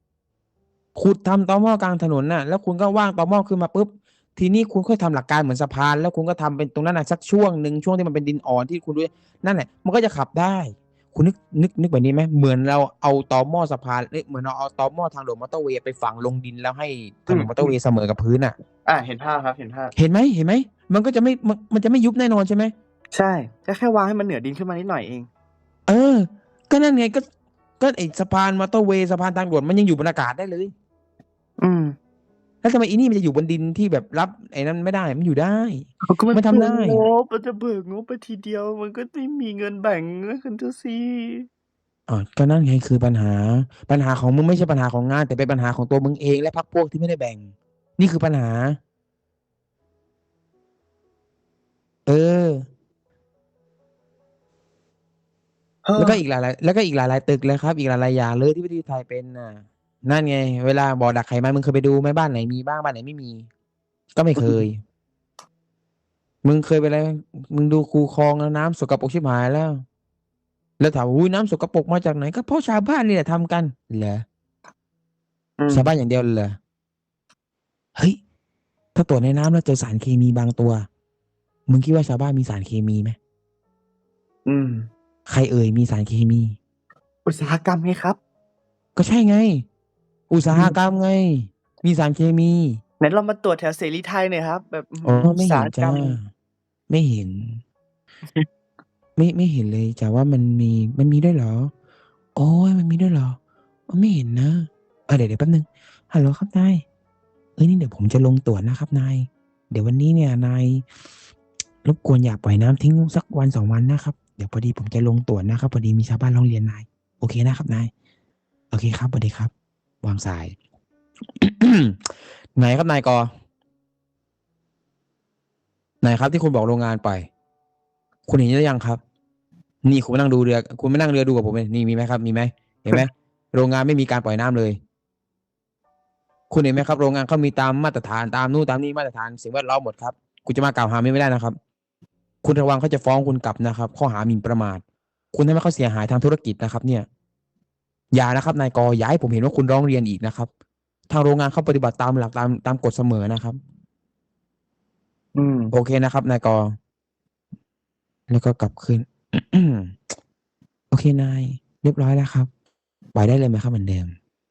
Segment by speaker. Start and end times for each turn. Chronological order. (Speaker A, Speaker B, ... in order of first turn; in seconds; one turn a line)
Speaker A: 0.9-18.6
Speaker B: 17.3-17.7
Speaker B: 18.8-19.9
Speaker A: 19.9-22.7
Speaker B: 23.1-25.3
Speaker A: 25.9-27.2
Speaker A: 27.8-30.7
Speaker B: 31.6-31.9
Speaker A: 32.6-37.0
Speaker B: 36.0-41.5
Speaker A: 42.1-48.8
Speaker A: 52.0-52.6
Speaker B: 55.8-56.2
Speaker A: 56.0-63.5
Speaker A: 64.2-64.8
Speaker B: 64.4-64.6
Speaker A: 66.4-69.8
Speaker A: 70.8-74.2
Speaker B: 75.6-75.9
Speaker A: 75.7-76.6
Speaker A: 78.9-80.8
Speaker A: 81.7-83.2
Speaker B: 84.5-84.9
Speaker A: 85.3-86.5
Speaker B: 87.2-88.2
Speaker A: 89.0-89.7
Speaker A: 90.3-92.8
Speaker B: 93.0-96.2
Speaker A: 95.0-96.3
Speaker A: 96.9-97.6
Speaker A: 99.2-101.7
Speaker A: 102.3-103.4
Speaker A: 103.9-106.8
Speaker A: 107.6-110.8
Speaker A: 111.8-117.9
Speaker A: 118.7-119.5
Speaker A: 120.0-120.5
Speaker A: 121.4-122.0
Speaker A: 122.5-123.3
Speaker A: 126.0-127.3
Speaker A: 128.3-129.0
Speaker A: 129.8-134.8
Speaker A: 136.5-141.6
Speaker A: 142.4-144.8
Speaker A: 145.3-147.1
Speaker A: 148.1-150.5
Speaker A: 151.1-153.6
Speaker B: 155.3-155.7
Speaker A: 155.7-156.8
Speaker A: 158.3-159.9
Speaker A: 160.9-162.5
Speaker A: 163.1-164.1